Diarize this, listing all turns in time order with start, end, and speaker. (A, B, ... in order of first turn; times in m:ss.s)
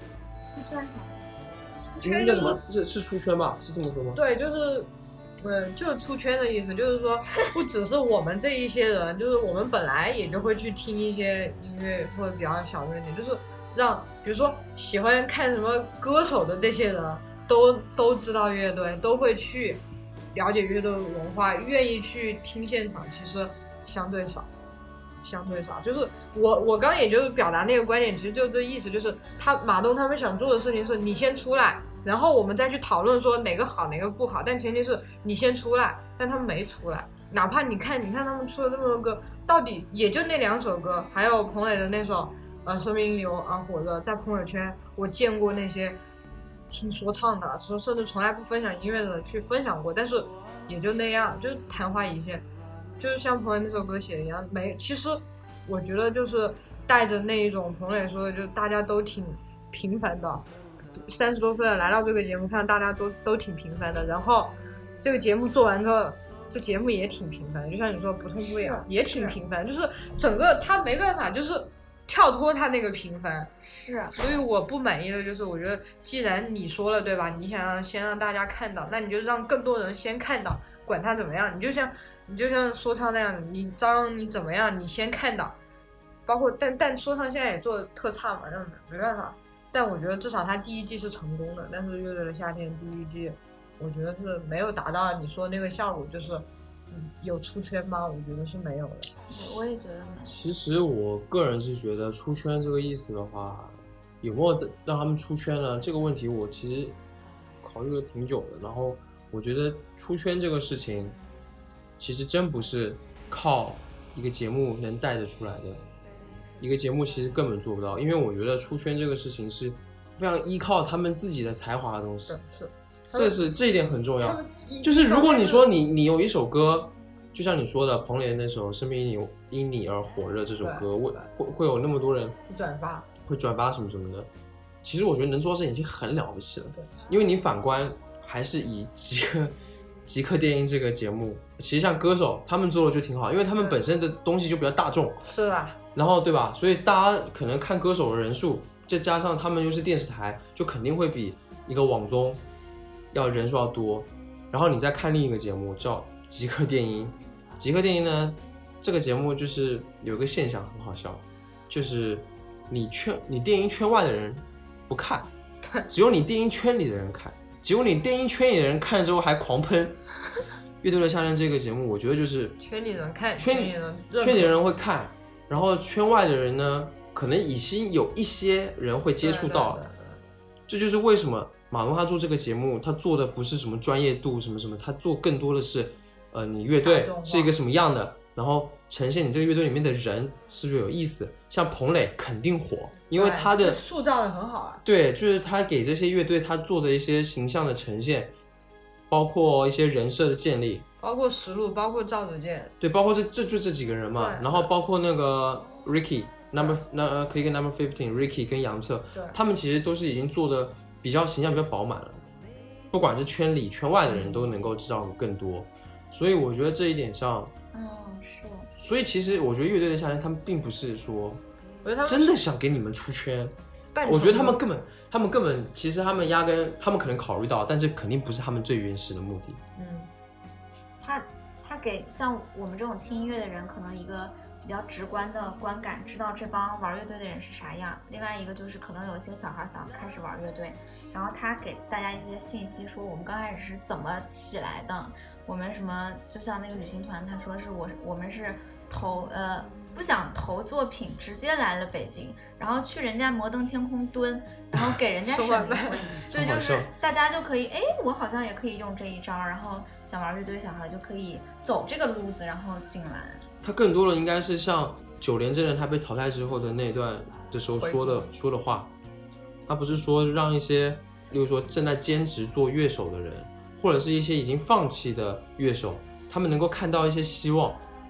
0:00.5-0:01.6 A
0:02.0-0:02.6 B
0:02.0-0:04.2 C
0:04.1-0:19.8 B
0:20.3-0:24.5 B
0:25.2-0:46.0 B
0:46.7-0:52.4 B
0:53.0-1:13.5 B
1:08.4-1:09.4 A
1:13.6-1:14.4 A
1:14.1-1:25.6 B
1:26.2-1:39.1 B
1:39.3-1:40.4 A
1:40.2-1:47.0 C
1:47.6-1:51.2 C
1:52.0-1:55.8 C
1:56.6-2:02.4 C
2:02.3-2:03.3 B
2:03.1-2:12.4 C
2:04.2-2:05.7 B
2:10.6-2:11.3 B
2:12.5-2:13.1 B
2:13.2-2:14.3 C
2:14.8-2:25.2 C
2:25.2-2:25.8 B
2:25.9-2:32.4 C
2:33.1-2:45.3 C
2:45.9-2:50.0 C
2:50.8-2:52.6 C
2:52.6-2:54.6 B
2:53.4-2:59.8 C
2:59.2-3:00.2 B
3:00.7-3:13.8 C
3:06.8-3:07.5 B
3:13.1-3:14.8 B
3:14.8-3:18.3 C
3:19.1-3:20.8 C
3:21.0-3:22.7 B
3:22.8-3:32.2 C
3:24.2-3:24.7 B
3:32.9-3:37.5 C
3:34.1-3:34.4 B
3:37.7-3:38.7 A
3:38.8-3:41.4 C
3:41.8-3:42.4 B
3:42.0-3:49.6 C
3:43.9-3:44.6 B
3:49.8-3:50.1 B
3:51.0-4:23.4 A
4:15.2-4:16.8 B
4:16.3-4:16.9 C
4:23.6-4:28.9 C
4:27.8-4:28.3 B
4:29.7-4:37.8 C